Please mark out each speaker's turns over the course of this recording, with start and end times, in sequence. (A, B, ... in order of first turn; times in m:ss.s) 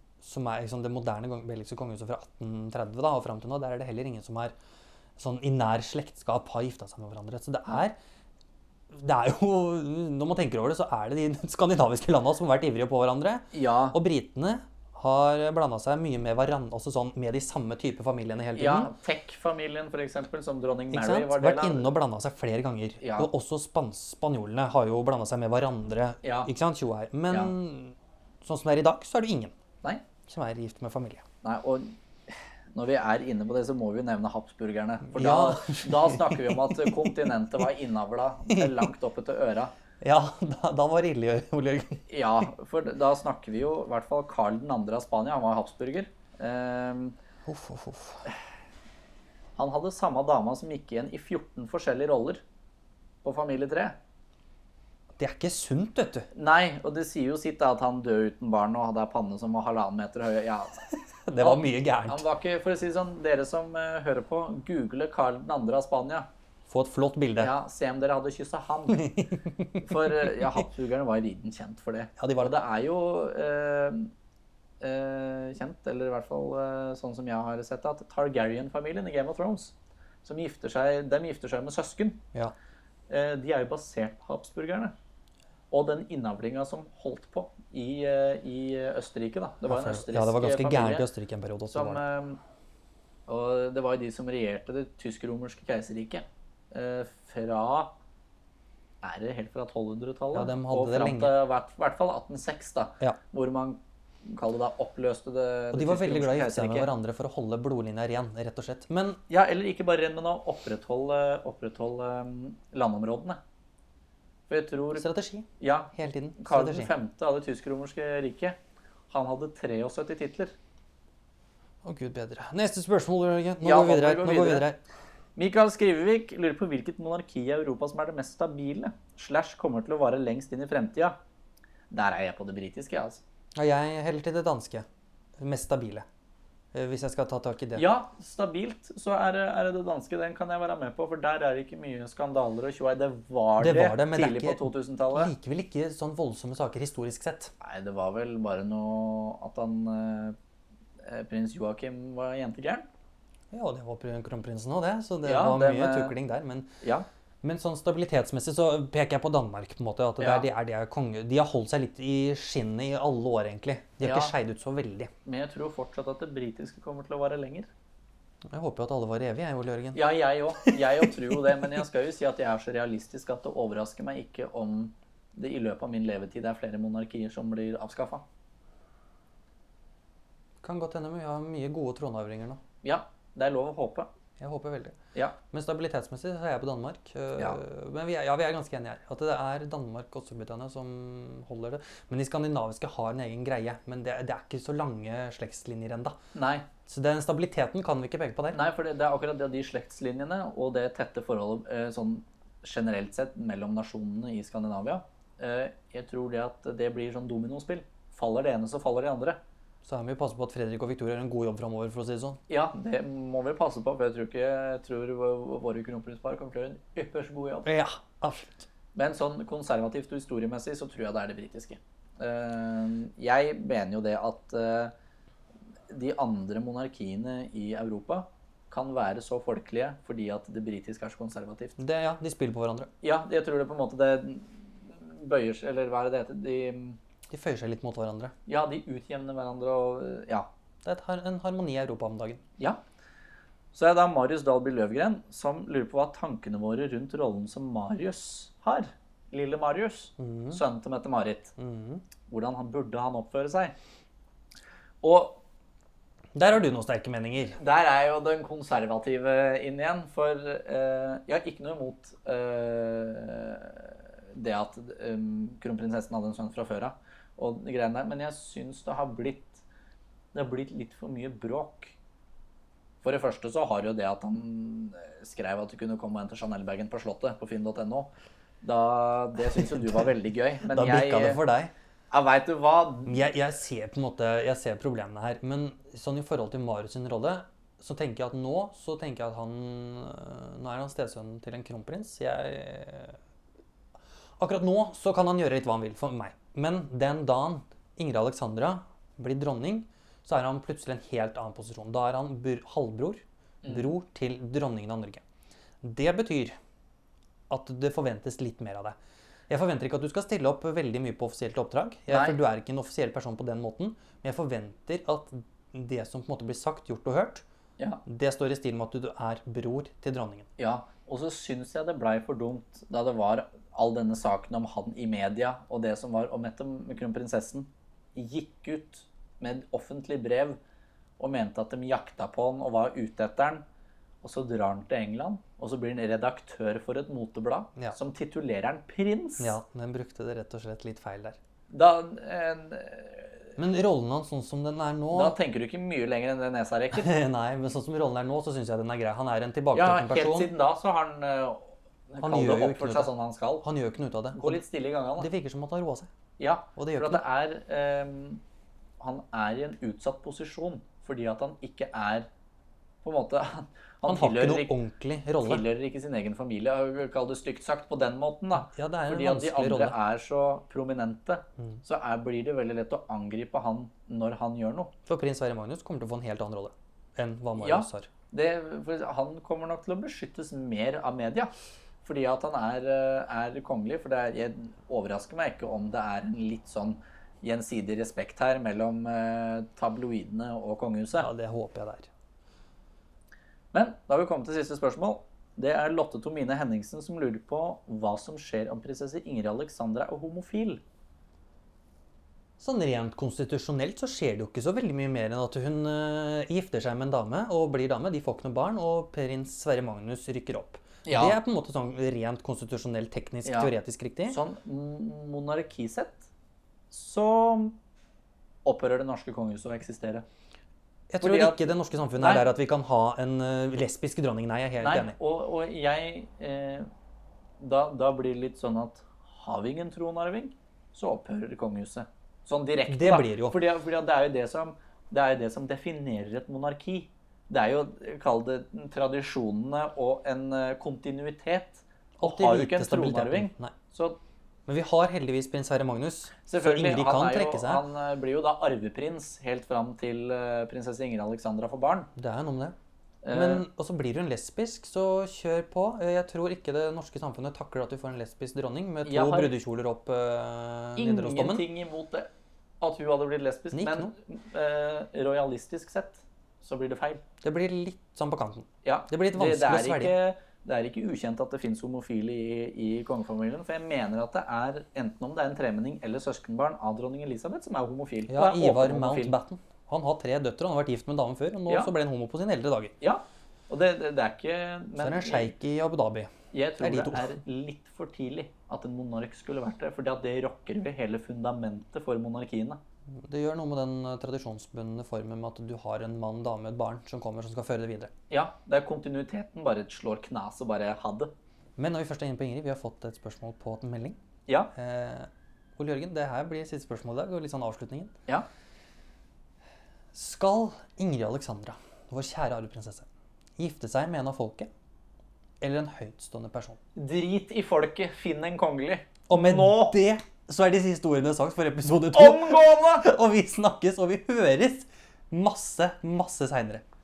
0:00.2-0:04.5 A
0:05.2-0:08.0 A
0:08.9-0:18.9 A
0:13.5-0:14.0 B
0:18.6-0:21.9 B
0:20.9-0:29.5 A
0:23.0-0:23.3 B
0:26.2-0:26.5 B
0:30.3-0:31.2 A
0:31.4-0:32.0 B
0:32.7-0:39.7 B
0:35.1-0:37.7 A
0:38.5-0:38.9 A
0:40.0-0:42.0 A
0:42.1-0:47.1 B
0:47.4-0:48.2 A
0:49.6-0:52.4 B
0:53.2-0:54.0 B
0:55.2-0:56.3 A
0:56.3-1:06.3 B
1:00.9-1:02.2 A
1:06.7-1:07.5 A
1:07.4-1:09.2 B
1:08.9-1:10.6 A
1:09.8-1:14.1 B
1:12.2-1:12.5 A
1:14.8-1:19.7 B
1:20.2-1:22.2 B
1:23.1-1:24.9 B
1:25.7-1:31.1 B
1:29.6-1:32.0 A
1:31.7-1:32.4 B
1:33.3-1:37.9 B
1:39.0-1:46.9 B
1:40.3-1:41.3 A
1:45.7-1:49.2 A
1:49.3-1:53.4 B
1:54.5-1:55.1 B
1:54.9-1:56.9 A
1:55.6-1:58.6 B
1:59.1-2:00.5 B
2:01.8-2:04.8 A
2:03.6-2:04.6 B
2:05.4-2:11.2 B
2:11.9-2:13.2 B
2:13.5-2:14.8 A
2:15.4-2:16.0 A
2:16.7-2:17.8 A
2:17.8-2:25.3 B
2:23.6-2:27.5 A
2:27.6-2:30.4 B
2:31.0-2:32.9 B
2:33.5-2:36.7 A
2:35.2-2:36.1 B
2:37.4-2:45.1 A
2:40.2-2:40.5 B
2:44.0-2:44.3 B
2:45.2-2:47.7 B
2:48.5-2:51.8 A
2:49.9-2:58.2 B
3:00.6-3:02.6 A
3:02.8-3:04.1 B
3:04.4-3:16.2 A
3:16.3-3:16.6 B
3:16.9-3:18.6 A
3:18.5-3:29.4 B
3:29.8-3:32.4 A
3:32.5-3:37.7 B
3:37.6-3:38.6 A
3:38.9-3:44.9 B
3:45.9-3:51.8 B
3:51.8-3:52.9 A
3:53.0-3:57.0 B
3:57.3-3:58.3 A
3:58.5-4:00.5 B
4:00.8-4:02.4 A
4:03.7-4:11.5 B
4:10.2-4:10.6 A
4:11.6-4:12.0 A
4:12.3-4:13.7 B
4:15.0-4:15.4 B
4:16.3-4:17.6 A
4:17.5-4:29.6 B
4:30.3-4:31.9 B
4:33.0-4:38.1 B
4:38.6-4:41.4 B
4:39.5-4:40.1 A
4:40.6-4:41.7 A
4:42.1-4:43.3 B
4:43.0-4:53.2 A
4:54.4-5:05.2 A
5:03.6-5:03.9 B
5:05.8-5:06.5 A
5:07.5-5:09.0 A
5:09.5-5:17.4 A
5:12.1-5:12.4 B
5:18.0-5:20.5 A
5:20.6-5:30.6 B
5:31.2-5:33.6 B
5:34.2-5:39.6 B
5:39.4-5:41.4 A
5:41.7-5:43.5 B
5:43.6-5:45.4 A
5:45.1-5:47.1 B
5:46.9-5:50.5 A
5:49.7-5:53.6 B
5:52.2-5:54.6 A
5:54.3-5:55.3 B
5:55.2-5:56.1 A
5:56.4-5:58.4 B
5:56.8-5:57.2 A
5:59.0-6:02.3 B
6:03.0-6:04.7 B
6:04.0-6:05.6 A
6:05.4-6:14.9 B
6:08.6-6:10.0 A
6:15.1-6:18.1 A
6:17.6-6:21.5 B
6:22.0-6:31.3 B
6:31.2-6:32.1 A
6:33.7-6:40.8 B
6:42.6-6:54.4 A
6:51.0-6:51.4 B
6:53.4-6:53.7 B
6:54.3-6:56.3 B
6:56.9-6:57.8 B
6:58.6-7:00.2 B
7:01.1-7:05.2 A
7:01.2-7:02.4 B
7:04.8-7:06.9 B
7:07.6-7:24.2 B
7:12.9-7:13.6 A
7:22.2-7:23.7 A
7:24.7-7:27.8 A
7:26.4-7:32.1 B
7:32.2-7:32.7 A
7:33.2-7:33.6 B
7:33.3-7:41.7 A
7:39.0-7:39.5 B
7:41.0-7:42.3 B
7:42.8-7:47.2 B
7:43.7-7:44.1 A
7:47.4-7:50.1 A
7:48.8-7:59.3 B
7:58.3-8:02.9 A
8:03.0-8:05.5 B
8:05.0-8:07.3 A
8:06.5-8:12.8 B
8:13.1-8:18.1 A
8:18.3-8:21.3 B
8:21.8-8:24.2 A
8:24.5-8:24.7 B
8:24.7-8:28.1 A
8:30.1-8:33.0 A
8:33.6-8:34.7 A
8:35.6-8:36.8 A
8:37.0-8:40.0 B
8:39.3-8:46.8 A
8:42.1-8:43.0 B